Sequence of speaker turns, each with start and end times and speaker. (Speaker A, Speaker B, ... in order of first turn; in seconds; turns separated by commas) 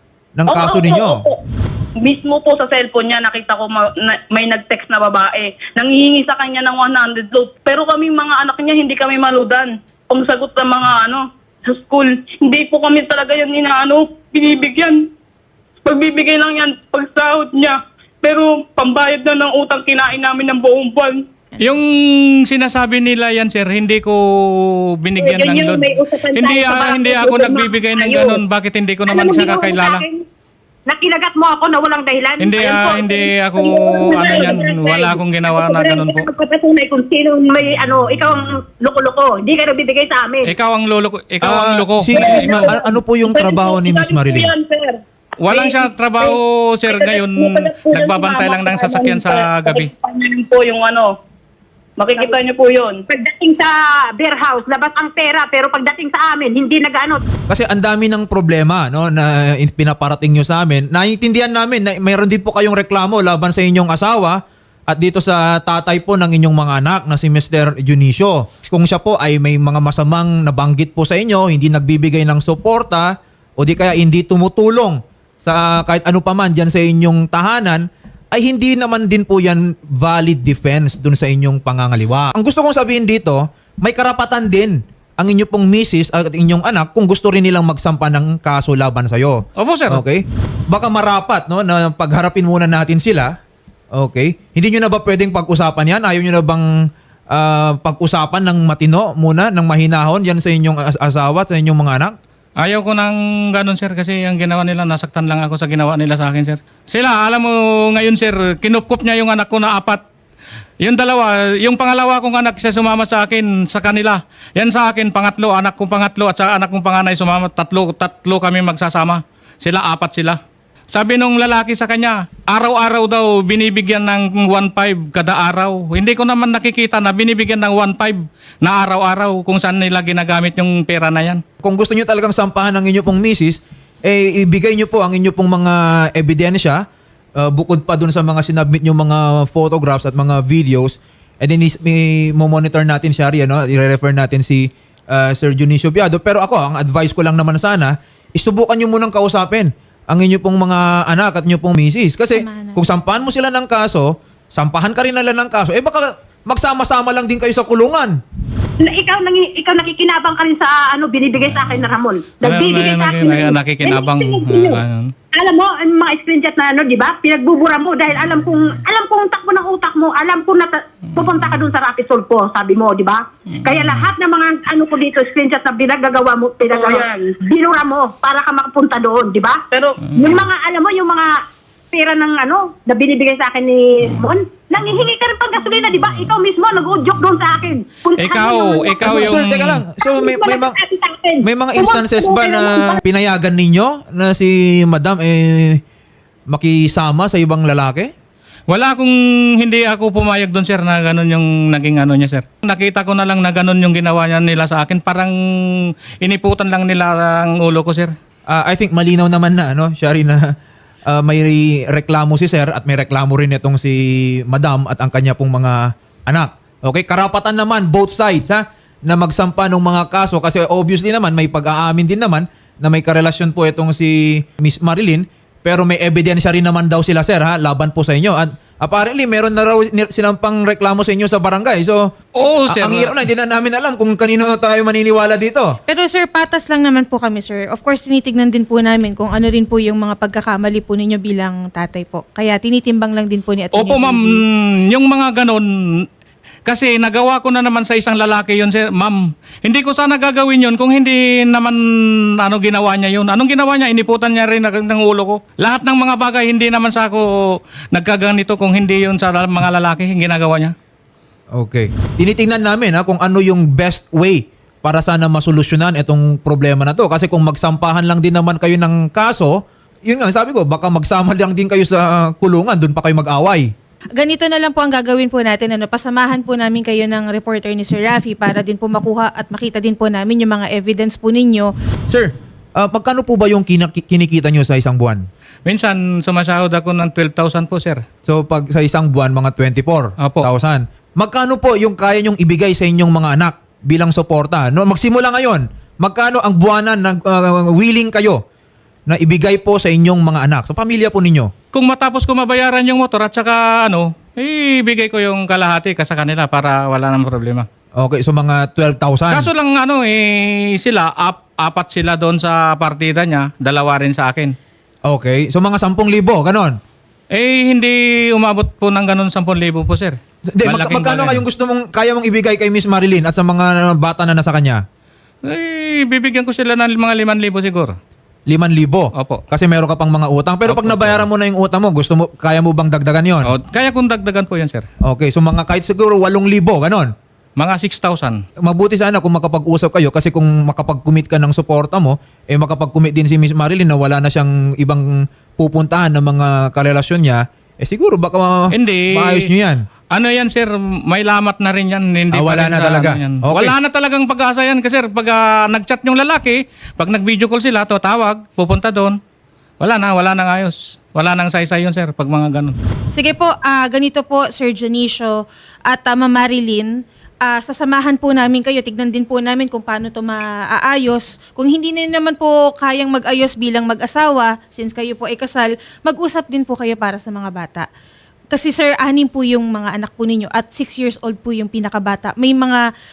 Speaker A: 0.4-1.2, Speaker B: 0.5-1.4, Speaker B: 2.0-15.0, Speaker B: 15.9-21.2, Speaker C: 21.6-30.1, Speaker D: 25.2-28.4, Speaker D: 29.1-30.2, Speaker D: 30.9-40.5, Speaker C: 32.4-36.3, Speaker B: 34.2-34.5, Speaker C: 40.5-42.7, Speaker A: 41.4-44.5, Speaker B: 42.2-45.0, Speaker C: 45.4-49.9, Speaker B: 45.5-46.3, Speaker B: 46.9-51.1, Speaker B: 52.0-53.0, Speaker D: 53.1-57.2, Speaker A: 57.5-93.4, Speaker C: 89.6-90.0, Speaker A: 93.9-96.7, Speaker A: 97.3-102.2, Speaker C: 102.6-110.0, Speaker C: 110.8-120.4, Speaker C: 120.9-131.4, Speaker A: 131.6-136.8, Speaker A: 137.4-158.2, Speaker E: 152.3-152.8, Speaker D: 158.8-164.8, Speaker C: 161.5-161.9, Speaker C: 162.4-165.1, Speaker D: 165.3-181.3, Speaker B: 176.7-177.3, Speaker B: 179.7-180.0, Speaker D: 181.9-189.4, Speaker C: 188.2-189.8, Speaker A: 189.0-190.8, Speaker D: 190.0-193.0, Speaker A: 191.4-195.8, Speaker A: 196.5-198.1, Speaker C: 198.7-205.3, Speaker C: 206.2-208.1, Speaker A: 208.5-210.6, Speaker A: 211.1-232.1, Speaker C: 232.4-233.2, Speaker A: 232.7-235.8, Speaker E: 235.9-244.4, Speaker C: 243.8-246.0, Speaker C: 246.7-251.8, Speaker C: 252.4-257.3, Speaker C: 257.9-260.7, Speaker A: 261.5-273.7, Speaker E: 274.2-281.7, Speaker A: 282.1-285.2, Speaker C: 285.7-288.0, Speaker A: 288.3-298.4, Speaker C: 290.2-290.5, Speaker A: 299.1-301.5, Speaker C: 301.7-307.7, Speaker A: 308.0-309.5, Speaker C: 309.3-314.6, Speaker A: 315.1-316.8, Speaker C: 317.3-321.4, Speaker A: 320.5-324.8, Speaker C: 325.5-327.9, Speaker A: 328.5-333.5, Speaker C: 329.2-329.4, Speaker C: 330.7-331.3, Speaker C: 333.4-334.9, Speaker A: 335.0-337.1, Speaker C: 337.6-338.4, Speaker A: 338.6-349.8, Speaker C: 348.7-349.5, Speaker C: 350.1-359.2, Speaker A: 352.3-353.8, Speaker C: 359.8-362.8, Speaker E: 363.1-377.9, Speaker E: 378.5-382.8